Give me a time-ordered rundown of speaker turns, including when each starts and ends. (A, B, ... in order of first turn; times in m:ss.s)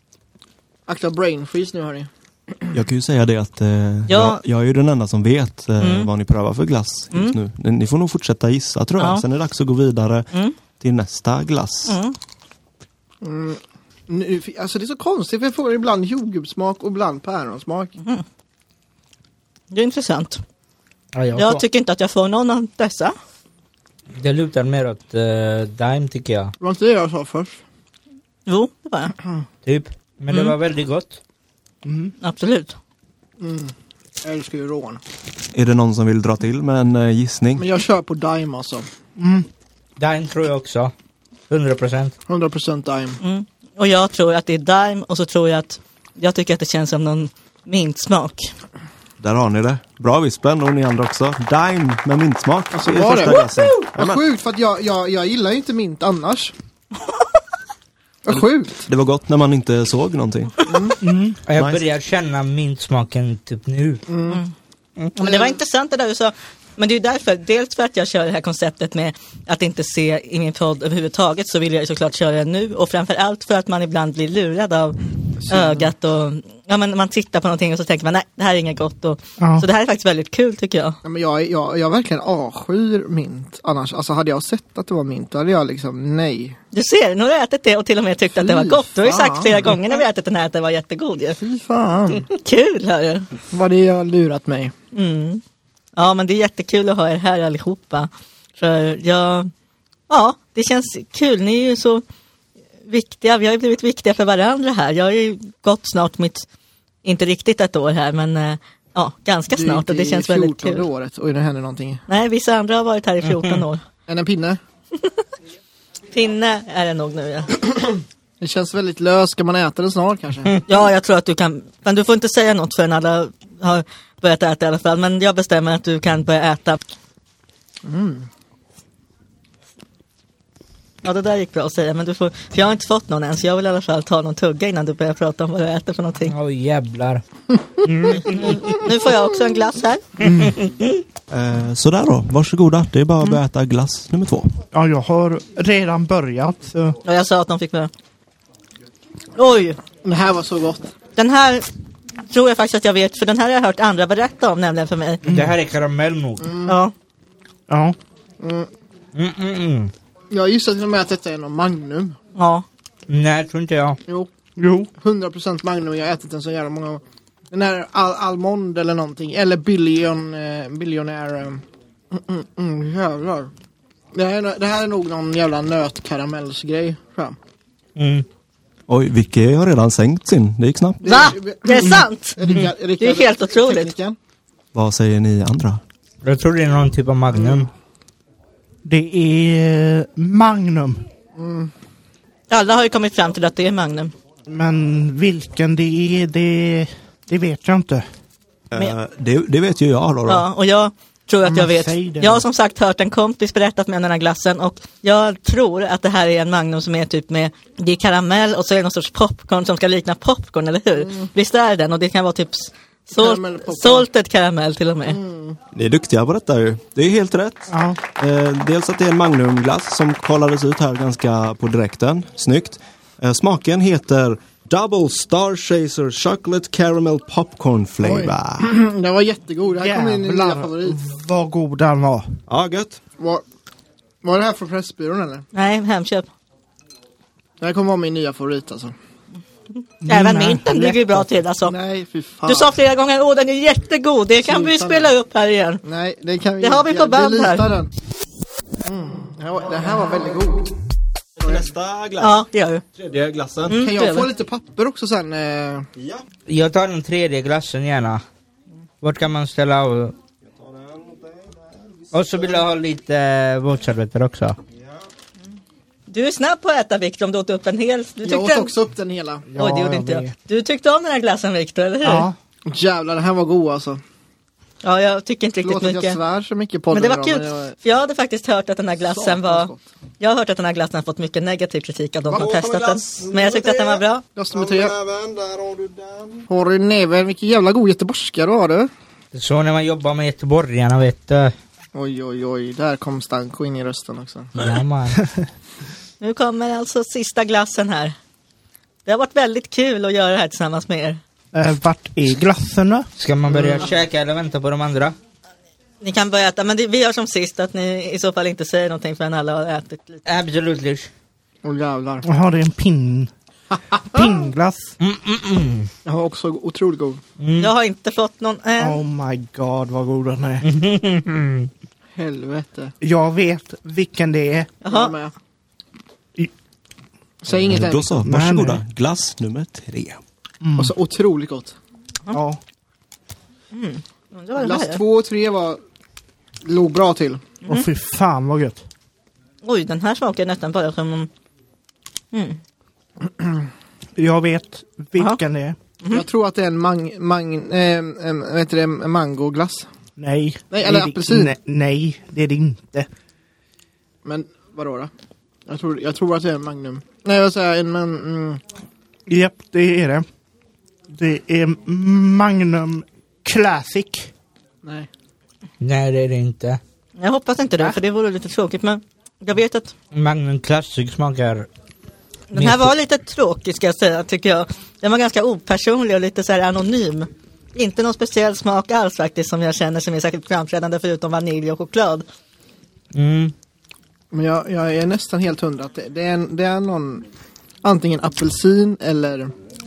0:00.9-0:02.8 A
0:02.7-0:12.0 B
0:04.1-0:04.4 C
0:05.8-0:06.1 C
0:09.0-0:09.2 C
0:11.9-0:12.2 C
0:13.2-0:18.0 A
0:19.7-0:20.4 C
0:21.1-0:21.6 D
0:21.4-0:23.1 C
0:24.2-0:26.5 D
0:26.6-0:27.6 A
0:28.5-0:29.2 C
0:29.6-0:31.2 D
0:30.3-0:30.6 C
0:31.8-0:32.1 E
0:32.2-0:32.8 C
0:33.4-0:35.0 A
0:35.5-0:37.7 B
0:37.6-0:38.9 A
0:39.2-0:39.5 E
0:40.0-0:40.9 D
0:41.5-0:42.1 D
0:42.3-0:43.2 A
0:43.2-0:48.5 C
0:49.2-0:54.2 B
0:52.7-0:56.5 A
0:58.2-0:58.8 A
0:58.3-1:00.6 B
1:00.7-1:01.0 A
1:01.0-1:01.4 E
1:01.5-1:04.0 D
1:01.6-1:01.8 B
1:04.1-1:04.4 A
1:05.2-1:15.0 C
1:05.2-1:05.5 A
1:15.4-1:15.9 A
1:15.5-1:21.0 C
1:19.4-1:19.7 E
1:21.0-1:26.6 A
1:26.7-1:31.4 C
1:28.3-1:29.7 A
1:31.4-1:32.3 A
1:32.3-1:33.3 C
1:33.5-1:34.7 A
1:34.9-1:35.4 C
1:36.0-1:39.5 C
1:40.1-1:42.0 C
1:42.9-1:46.5 C
1:47.0-1:50.9 C
1:49.5-1:52.0 A
1:52.1-1:53.8 C
1:53.2-1:53.6 D
1:54.1-1:54.6 A
1:56.1-1:57.6 C
1:58.4-2:00.6 A
2:00.7-2:06.8 C
2:07.8-2:08.3 A
2:11.0-2:16.4 C
2:16.3-2:17.2 D
2:17.8-2:18.7 D
2:18.3-2:20.1 C
2:20.5-2:20.8 D
2:21.3-2:24.5 B
2:24.7-2:27.0 E
2:27.0-2:27.9 C
2:29.4-2:29.8 C
2:30.0-2:30.9 A
2:31.2-2:31.7 C
2:32.3-2:35.2 C
2:35.3-2:35.5 E
2:35.3-2:36.5 D
2:36.4-2:36.7 A
2:36.7-2:36.9 C
2:37.7-2:38.0 E
2:38.4-2:38.7 A
2:39.1-2:39.9 D
2:40.3-2:42.2 A
2:42.4-2:42.6 C
2:43.1-2:44.0 D
2:44.6-2:44.9 E
2:45.0-2:53.5 A
2:54.1-2:57.4 A
2:58.0-2:58.2 D
2:58.9-3:01.0 B
3:01.0-3:04.2 A
3:01.0-3:02.4 C
3:03.0-3:03.9 C
3:04.7-3:05.8 B
3:06.2-3:07.7 D
3:08.8-3:11.0 E
3:11.4-3:11.7 A
3:12.5-3:14.1 C
3:14.5-3:18.0 E
3:18.7-3:20.5 B
3:20.3-3:35.2 C
3:21.5-3:22.4 E
3:33.2-3:34.1 A
3:35.1-3:35.6 A
3:35.7-3:48.7 B
3:37.7-3:38.0 E
3:48.0-3:51.0 A
3:49.8-3:52.4 E
3:52.5-3:53.0 B
3:53.2-3:53.4 A
3:54.2-3:55.4 A
3:55.5-3:56.3 C
3:57.6-3:58.9 A
4:00.0-4:01.3 E
4:00.0-4:01.8 C
4:01.6-4:02.8 A
4:02.5-4:05.8 C
4:04.4-4:05.1 A
4:05.8-4:07.9 A
4:06.6-4:07.7 C
4:08.8-4:10.7 A
4:11.4-4:12.4 B
4:12.2-4:12.8 C
4:13.0-4:13.8 B
4:13.7-4:14.3 C
4:13.8-4:15.9 A
4:16.0-4:16.2 B
4:16.5-4:18.2 D
4:19.0-4:20.2 D
4:20.4-4:22.6 B
4:22.1-4:24.6 D
4:24.8-4:25.0 B
4:26.1-4:28.7 C
4:28.2-4:29.5 A
4:29.5-4:30.4 E
4:29.6-4:32.3 C
4:32.0-4:32.4 E
4:32.7-4:34.0 A
4:34.8-4:36.2 C
4:35.6-4:37.8 A
4:36.9-4:44.2 C
4:39.0-4:39.9 A
4:42.3-4:46.5 B
4:44.4-4:45.0 A
4:46.5-4:48.9 A
4:49.3-4:51.5 D
4:51.9-4:54.5 A
4:54.6-4:55.2 D
4:56.2-4:58.2 C
4:59.0-5:01.2 C
5:01.5-5:03.1 E
5:03.2-5:05.2 D
5:03.5-5:03.9 A
5:06.0-5:10.2 C
5:10.2-5:11.1 D
5:11.6-5:12.2 A
5:12.2-5:13.3 E
5:14.0-5:15.0 E
5:15.0-5:15.9 D
5:16.0-5:17.2 A
5:17.4-5:17.7 D
5:17.6-5:19.0 C
5:18.8-5:20.6 E
5:20.6-5:21.7 D
5:22.2-5:23.0 A
5:23.0-5:24.7 E
5:24.8-5:25.2 C
5:24.9-5:25.3 A
5:27.4-5:28.2 A
5:27.6-5:30.2 B
5:28.2-5:28.8 E
5:30.6-5:30.9 E
5:30.8-5:31.8 A
5:32.3-5:32.6 E
5:33.7-5:35.0 C
5:34.6-5:35.8 A
5:36.6-5:37.6 A
5:37.7-5:38.8 E
5:39.6-5:41.3 C
5:42.3-5:42.6 C
5:44.2-5:45.8 E
5:46.1-5:49.9 A
5:50.2-5:53.1 E
5:50.7-5:51.5 A
5:54.2-5:55.1 A
5:55.7-5:58.6 A
5:59.3-6:00.3 E
6:01.1-6:04.3 E
6:05.8-6:06.8 D
6:07.2-6:09.9 C
6:10.1-6:11.7 D
6:12.5-6:22.2 C
6:12.6-6:12.9 D
6:23.1-6:23.5 D
6:24.3-6:27.2 A
6:27.8-6:29.5 A